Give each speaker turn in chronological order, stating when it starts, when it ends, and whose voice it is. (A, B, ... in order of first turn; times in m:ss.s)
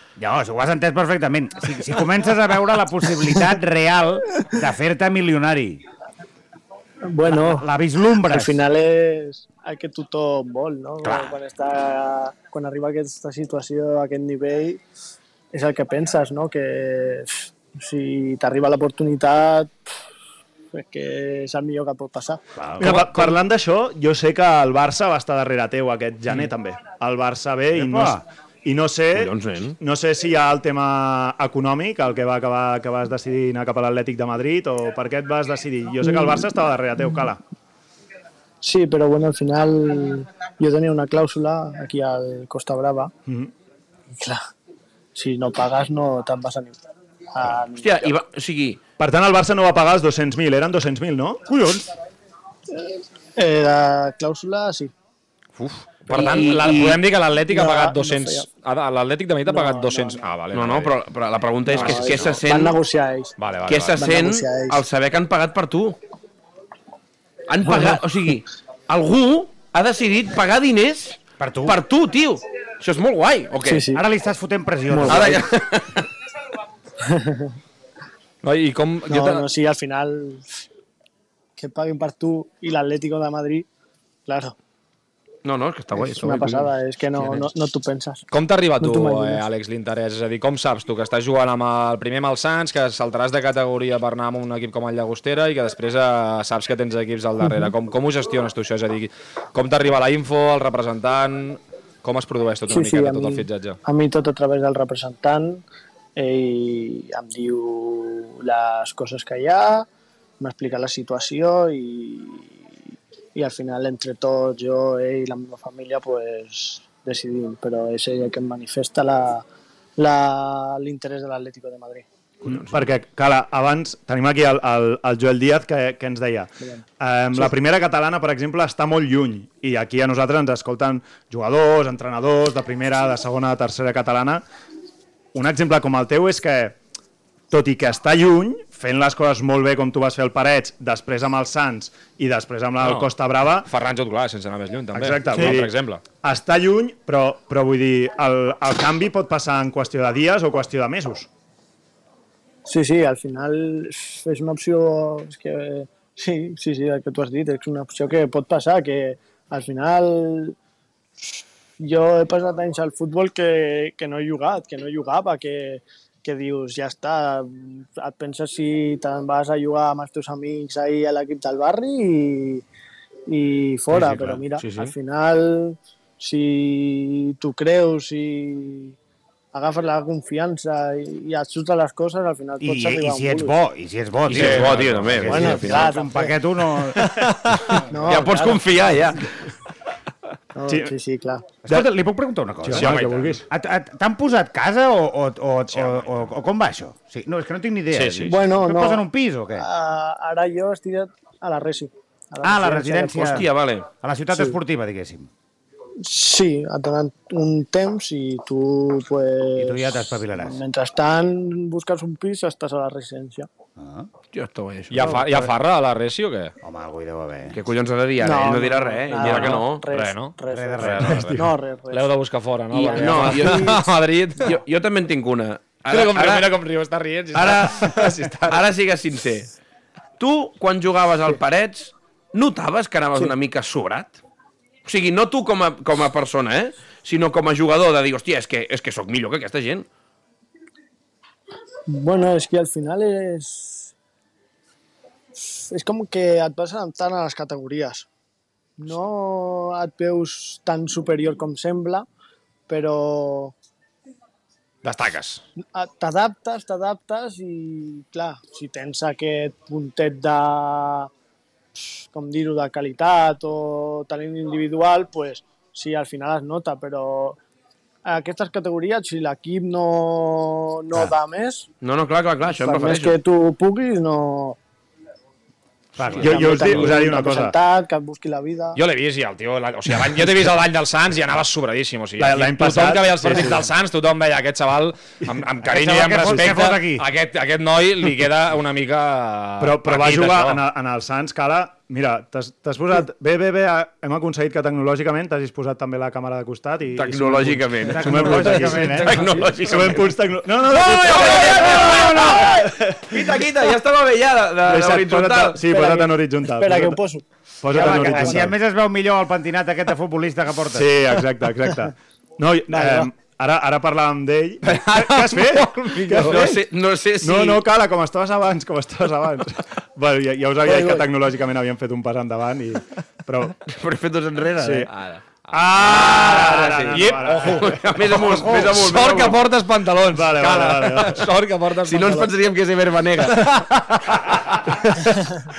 0:00.2-0:05.8 A
0:07.0-0:07.7 B
0:07.3-0:08.6 A
0:08.2-0:14.8 B
0:11.0-0:11.4 A
0:15.5-0:19.8 B
0:20.7-0:22.4 B
0:22.6-0:23.0 A
0:22.8-0:37.4 C
0:22.8-0:23.3 D
0:27.7-0:28.2 A
0:29.1-0:29.8 E
0:38.6-0:43.1 B
0:43.3-0:43.5 C
0:44.2-0:44.4 B
0:45.2-0:46.8 B
0:47.3-0:48.1 B
0:47.8-0:48.8 E
0:49.0-0:51.4 C
0:51.5-0:51.9 A
0:53.4-0:54.9 B
0:55.6-1:00.9 D
0:56.1-0:57.0 E
0:56.1-0:56.9 B
0:57.5-0:58.5 B
0:59.5-1:00.2 B
1:00.5-1:02.8 E
1:01.7-1:03.4 B
1:01.8-1:02.3 D
1:03.4-1:04.0 D
1:03.7-1:06.0 E
1:04.0-1:04.8 B
1:07.5-1:13.9 E
1:07.6-1:08.0 B
1:11.4-1:11.8 A
1:13.6-1:14.0 B
1:13.9-1:15.5 A
1:14.9-1:15.4 B
1:15.1-1:16.1 E
1:17.0-1:17.5 B
1:18.4-1:19.4 D
1:19.1-1:20.5 B
1:21.6-1:23.7 B
1:24.3-1:24.6 B
1:25.4-1:27.4 E
1:26.0-1:28.2 B
1:28.3-1:43.8 D
1:28.8-1:29.4 B
1:42.7-1:45.6 B
1:46.2-1:49.9 B
1:50.4-1:52.6 B
1:53.4-1:59.4 B
2:00.0-2:02.1 B
2:02.4-2:14.4 C
2:15.3-2:16.8 C
2:17.5-2:23.7 C
2:22.8-2:23.1 D
2:23.6-2:26.0 D
2:25.0-2:25.7 C
2:26.2-2:31.3 C
2:32.7-2:40.6 B
2:41.8-2:52.6 B
2:53.3-2:59.0 B
2:53.9-2:54.4 A
2:54.6-2:54.9 E
2:59.5-3:03.5 B
3:02.6-3:07.2 A
3:04.3-3:05.9 E
3:04.3-3:05.1 D
3:05.3-3:06.4 B
3:07.0-3:09.3 E
3:07.9-3:08.7 B
3:10.6-3:11.6 B
3:11.6-3:19.7 A
3:11.7-3:11.9 C
3:12.6-3:13.4 C
3:12.7-3:13.3 E
3:17.9-3:18.4 D
3:18.2-3:19.0 B
3:19.6-3:23.4 B
3:22.4-3:23.5 A
3:23.2-3:23.9 E
3:24.0-3:25.3 A
3:26.0-3:33.5 B
3:29.6-3:30.6 A
3:33.8-3:34.1 A
3:34.3-3:35.2 E
3:34.9-3:36.5 D
3:35.0-3:35.5 A
3:36.6-3:37.6 A
3:37.5-3:39.8 E
3:38.2-3:42.2 B
3:39.2-3:44.6 D
3:40.5-3:41.4 A
3:42.7-3:43.8 E
3:42.8-3:43.9 B
3:44.4-3:46.5 E
3:45.9-3:48.6 D
3:47.4-3:48.0 A
3:48.5-3:49.5 E
3:50.2-3:54.2 E
3:54.8-3:59.9 E
4:01.9-4:03.9 B
4:05.4-4:08.1 B
4:08.8-4:12.1 B
4:12.7-4:13.5 B
4:14.8-4:15.4 D
4:15.8-4:21.1 B
4:21.8-4:27.4 B
4:28.0-4:31.7 B
4:31.8-4:33.2 E
4:32.5-4:34.6 B
4:36.0-4:36.6 A
4:36.2-4:37.6 C
4:36.2-4:38.8 B
4:38.8-4:50.6 D
4:42.2-4:43.6 C
4:45.6-4:47.1 A
4:46.1-4:46.7 C
4:49.6-5:03.4 C
4:56.9-5:05.6 E
4:57.8-4:59.8 A
5:01.1-5:02.6 A
5:04.6-5:07.0 C
5:05.7-5:08.4 B
5:07.6-5:08.5 C
5:07.7-5:11.0 A
5:10.7-5:16.6 C
5:12.7-5:13.1 B
5:14.7-5:16.5 D
5:16.2-5:17.6 E
5:17.2-5:23.6 C
5:20.6-5:21.1 B
5:23.7-5:25.2 E
5:24.6-5:24.9 C
5:25.5-5:28.6 C
5:25.8-5:29.4 E
5:26.9-5:32.3 D
5:28.2-5:28.8 A
5:30.1-5:31.3 C
5:31.8-5:33.6 E
5:34.3-5:34.8 C